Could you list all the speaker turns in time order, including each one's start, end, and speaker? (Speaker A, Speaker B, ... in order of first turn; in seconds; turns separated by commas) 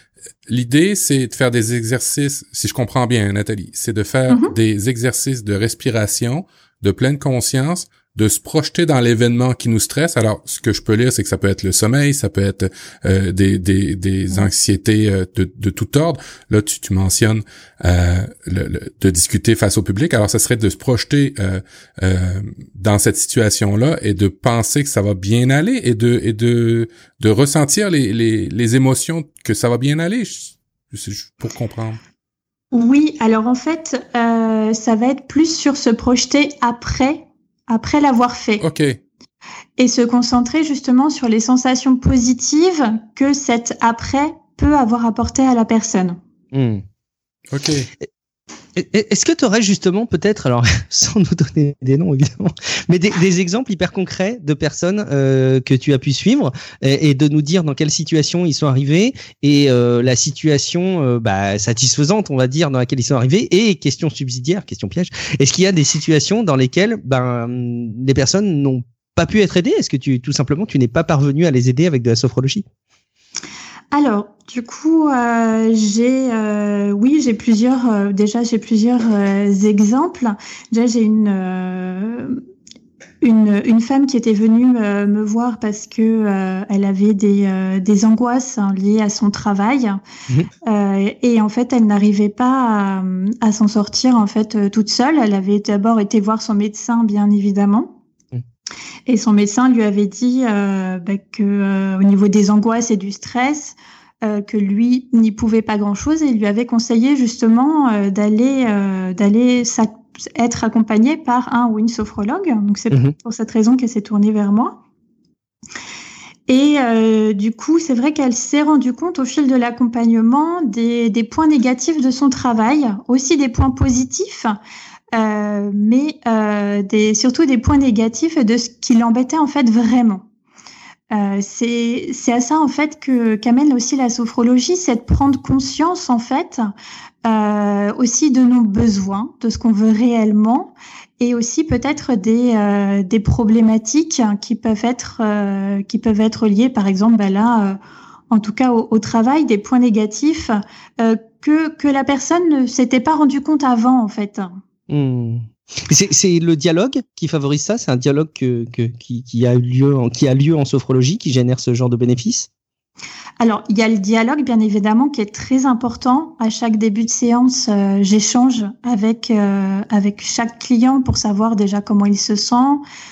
Speaker A: 0.5-32.0, Speaker B: 4.3-4.5, Speaker B: 32.7-38.6, Speaker A: 38.6-39.0, Speaker B: 39.8-46.2, Speaker C: 46.5-46.8, Speaker A: 47.5-47.9, Speaker C: 48.7-72.6, Speaker B: 73.9-82.4, Speaker B: 83.2-90.0, Speaker B: 90.7-98.0, Speaker B: 99.1-114.8, Speaker B: 116.5-124.5, Speaker B: 125.1-130.2, Speaker B: 131.1-136.7, Speaker B: 137.2-147.8, Speaker B: 148.3-154.5, Speaker C: 154.9-162.5, Speaker B: 163.4-172.8